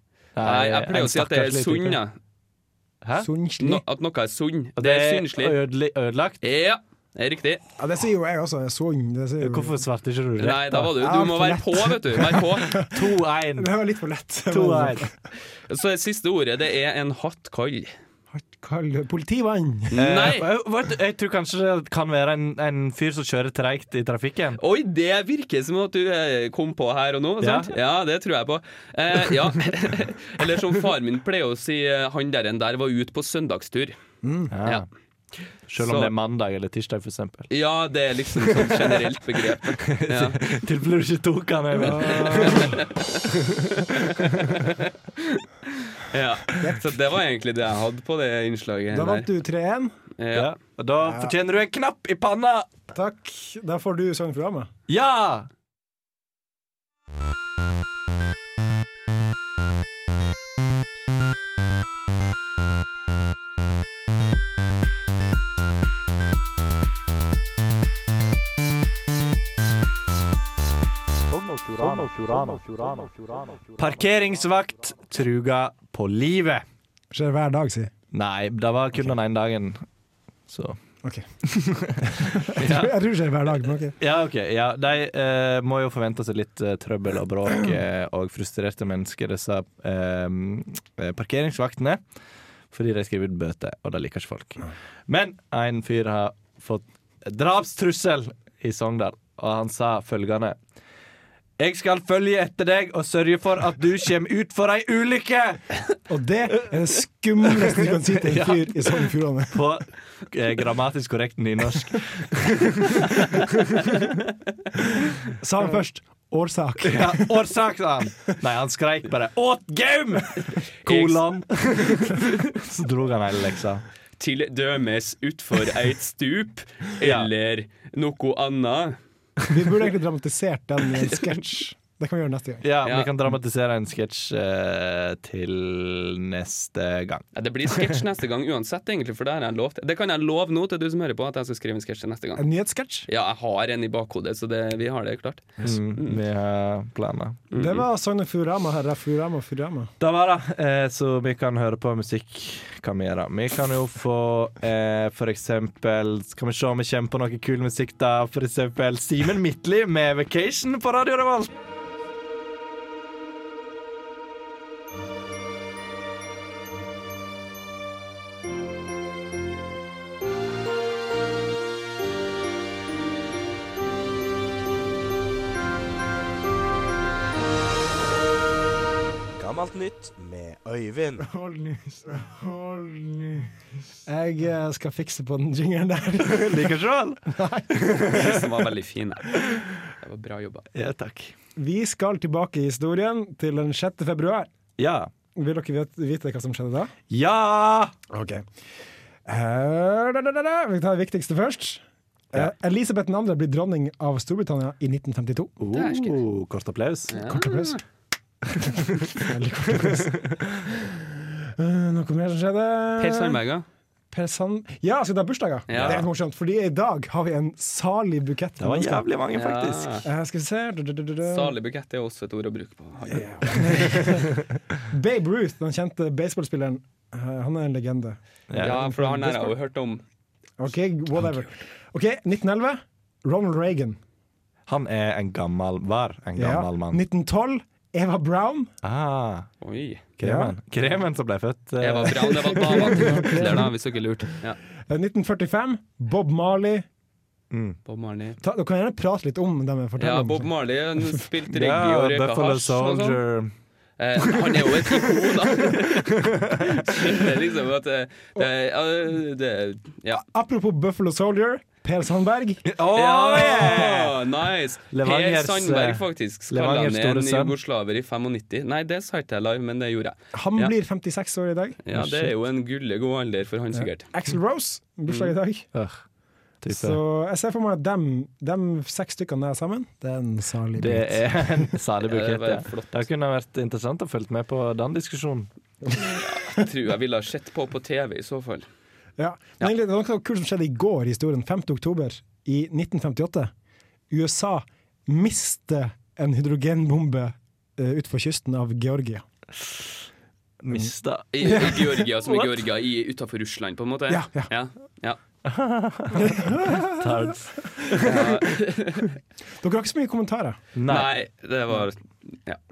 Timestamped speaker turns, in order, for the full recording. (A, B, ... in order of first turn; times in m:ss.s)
0:00.4-0:02.0 A
0:00.4-0:02.1 B
0:03.0-0:03.3 A
0:03.2-0:03.8 C
0:03.6-0:05.6 B
0:04.8-0:06.4 A
0:06.4-0:07.6 B
0:07.8-0:09.7 C
0:09.4-0:10.9 A
0:10.4-0:12.8 B
0:11.0-0:11.8 C
0:12.8-0:13.7 A
0:13.6-0:15.0 C
0:14.5-0:15.1 A
0:15.7-0:17.9 B
0:18.3-0:19.9 C
0:19.9-0:20.5 B
0:19.9-0:24.6 A
0:24.6-0:34.0 B
0:27.4-0:27.7 A
0:34.2-0:34.5 C
0:34.5-0:34.9 A
0:35.7-0:37.5 A
0:35.8-0:36.1 B
0:37.5-0:40.4 B
0:38.3-0:39.0 A
0:39.8-0:44.6 A
0:41.8-0:43.2 B
0:41.8-0:42.6 C
0:43.8-0:49.3 B
0:48.9-0:49.9 C
0:50.2-0:50.5 B
0:50.3-0:52.7 A
0:52.9-0:54.7 C
0:54.9-0:55.5 A
1:11.3-1:16.6 A
1:17.1-1:17.9 C
1:18.1-1:19.8 A
1:20.5-1:20.8 A
1:22.0-1:22.9 A
1:22.7-1:23.9 C
1:24.0-1:32.0 A
1:32.7-1:40.6 A
1:41.6-1:45.6 A
1:46.1-1:49.5 C
1:48.2-1:49.0 A
1:49.5-1:53.3 A
1:55.4-1:57.2 C
1:56.8-2:03.8 A
2:00.5-2:01.2 B
2:04.2-2:09.0 B
2:07.0-2:07.3 A
2:09.5-2:12.6 C
2:12.6-2:18.0 A
2:12.8-2:13.1 B
2:17.3-2:22.4 B
2:22.4-2:23.0 C
2:23.1-2:26.2 B
2:25.6-2:27.4 A
2:27.5-2:27.8 B
2:27.5-2:29.9 C
2:30.0-2:41.5 A
2:59.4-3:01.2 A
3:01.4-3:01.8 C
3:04.1-3:06.5 C
3:06.2-3:08.5 A
3:07.3-3:07.7 C
3:08.1-3:10.6 B
3:10.7-3:11.3 A
3:11.6-3:14.5 C
3:14.8-3:15.1 A
3:15.3-3:16.9 C
3:17.1-3:17.9 A
3:18.1-3:18.4 C
3:19.3-3:25.5 C
3:25.6-3:27.3 A
3:25.7-3:26.2 B
3:27.1-3:27.8 B
3:27.3-3:27.7 C
3:28.6-3:29.1 A
3:29.2-3:30.1 C
3:29.8-3:30.4 A
3:31.6-3:33.4 C
3:33.0-3:33.6 B
3:34.1-3:39.0 C
3:35.7-3:36.0 B
3:35.7-3:36.0 A
3:38.6-3:40.0 A
3:39.3-3:40.0 B
3:40.0-3:41.5 C
3:41.2-3:44.0 B
3:43.1-3:44.3 C
3:44.9-3:48.2 C
3:48.5-3:48.8 A
3:48.6-3:50.0 B
3:48.7-3:49.5 C
3:50.6-3:54.0 C
3:54.7-3:57.0 A
3:56.4-3:58.7 C
3:58.8-3:59.5 A
3:59.6-4:00.1 B
4:00.2-4:03.1 A
4:00.2-4:00.5 C
4:01.8-4:04.6 B
4:02.3-4:03.7 C
4:04.9-4:06.8 C
4:07.5-4:07.8 A
4:07.9-4:08.4 B
4:08.4-4:10.4 C
4:10.0-4:13.2 B
4:11.5-4:13.5 A
4:14.0-4:20.2 B
4:14.2-4:17.1 A
4:20.2-4:22.6 C
4:22.6-4:24.2 A
4:22.9-4:30.7 B
4:24.9-4:27.5 A
4:30.3-4:31.8 C
4:31.8-4:34.1 B
4:31.9-4:32.3 A
4:33.7-4:35.6 C
4:35.1-4:35.3 B
4:35.7-4:36.0 A
4:36.6-4:37.0 A
4:36.7-4:41.1 C
4:40.8-4:45.5 A
4:42.0-4:43.0 B
4:46.0-4:48.6 B
4:49.2-4:53.5 C
4:54.1-4:59.2 C
5:00.6-5:02.6 A
5:01.3-5:05.2 B
5:04.1-5:04.5 C
5:05.4-5:08.4 A
5:06.2-5:06.8 C
5:08.0-5:09.1 B
5:09.6-5:10.6 C
5:10.7-5:11.1 A
5:10.9-5:12.6 B